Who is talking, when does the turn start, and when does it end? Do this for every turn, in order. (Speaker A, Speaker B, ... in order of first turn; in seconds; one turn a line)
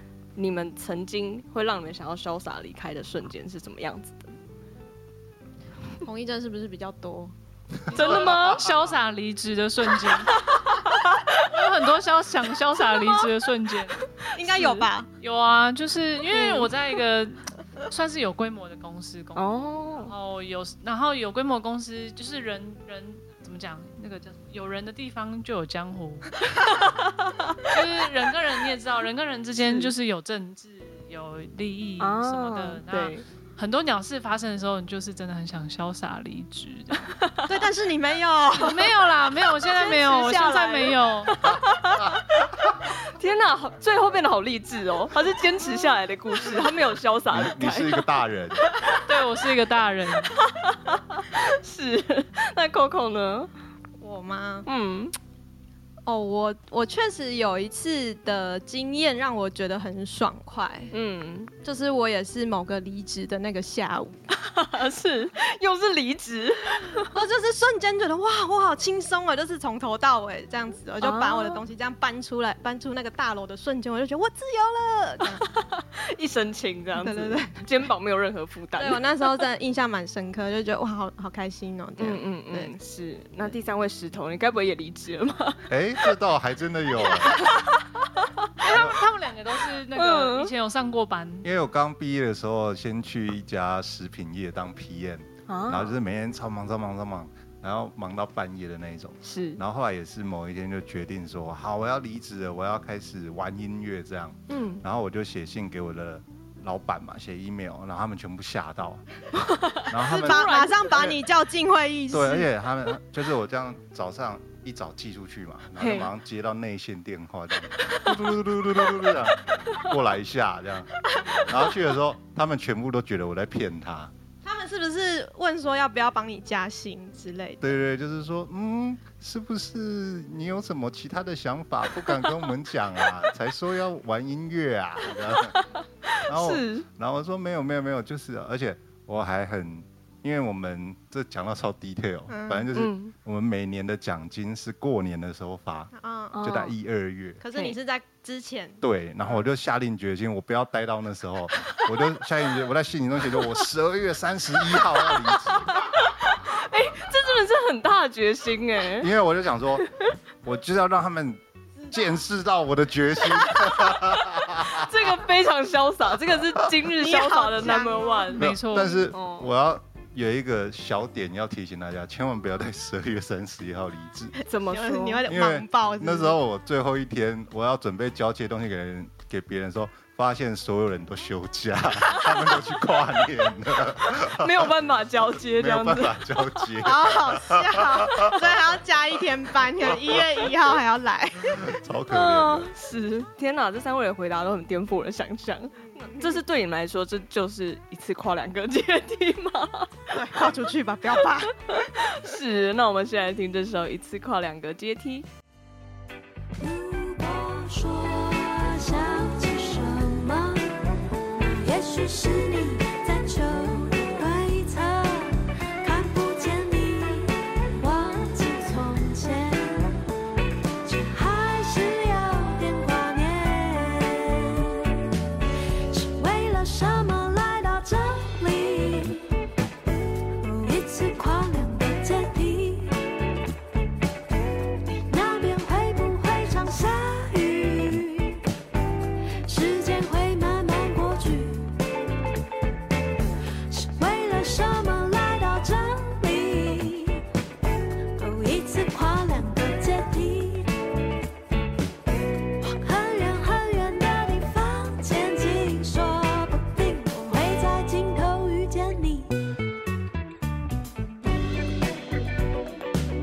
Speaker A: 0.4-4.3
Speaker B: 6.0-7.3
Speaker B: 7.9-8.2
Speaker A: 7.9-8.7
Speaker C: 7.9-10.4
Speaker A: 10.2-11.4
Speaker C: 11.4-14.0
Speaker B: 14.3-15.1
Speaker A: 14.4-14.9
Speaker C: 15.2-26.8
Speaker A: 16.3-16.8
Speaker A: 19.4-20.1
Speaker A: 26.8-27.7
Speaker C: 27.7-37.1
Speaker A: 29.6-29.9
Speaker A: 32.0-33.2
Speaker A: 37.0-37.5
Speaker B: 37.5-38.9
Speaker C: 38.6-41.4
Speaker A: 39.6-49.0
Speaker D: 47.3-48.6
Speaker C: 49.0-50.4
Speaker A: 50.2-53.5
Speaker B: 54.0-54.7
Speaker A: 54.7-55.1
Speaker B: 56.1-60.9
Speaker A: 60.9-61.5
Speaker B: 61.6-64.3
Speaker A: 64.4-67.1
Speaker B: 67.0-75.5
Speaker A: 71.0-71.6
Speaker A: 75.4-79.3
Speaker B: 77.0-77.7
Speaker B: 78.8-82.8
Speaker A: 82.0-85.7
Speaker D: 85.7-87.5
Speaker A: 87.0-88.5
Speaker C: 88.6-91.5
Speaker D: 88.7-89.0
Speaker A: 90.0-90.5
Speaker D: 91.4-109.0
Speaker A: 95.5-96.0
Speaker A: 99.2-99.6
Speaker A: 104.5-104.8
Speaker A: 109.4-111.1
Speaker D: 109.9-111.1
Speaker B: 110.0-112.5
Speaker D: 112.1-124.1
Speaker A: 115.8-116.1
Speaker B: 124.4-127.7
Speaker D: 127.6-135.6
Speaker A: 135.3-136.9
Speaker D: 136.3-147.4
Speaker B: 142.3-142.7
Speaker A: 142.8-143.1
Speaker B: 145.9-146.4
Speaker A: 146.3-146.7
Speaker B: 147.4-148.8
Speaker D: 148.8-155.9
Speaker A: 151.7-151.9
Speaker A: 154.7-159.1
Speaker D: 159.0-159.9
Speaker A: 159.8-160.1
Speaker D: 160.4-165.1
Speaker A: 163.3-168.6
Speaker B: 167.0-168.3
Speaker C: 168.3-169.1
Speaker D: 168.3-174.3
Speaker A: 169.1-169.5
Speaker A: 174.5-175.2
Speaker B: 174.6-176.4
Speaker D: 175.3-184.7
Speaker A: 184.1-186.7
Speaker D: 185.5-188.6
Speaker B: 186.8-191.7
Speaker D: 189.8-190.2
Speaker D: 191.4-192.7
Speaker A: 192.1-200.5
Speaker B: 196.0-196.4
Speaker B: 200.1-201.5
Speaker A: 201.6-205.3
Speaker E: 206.6-220.1
Speaker E: 220.8-225.0
Speaker E: 225.9-229.4
Speaker E: 230.4-233.0
Speaker E: 234.9-238.4
Speaker E: 239.5-241.8
Speaker E: 243.7-247.2
Speaker E: 248.2-250.8
Speaker E: 252.6-259.4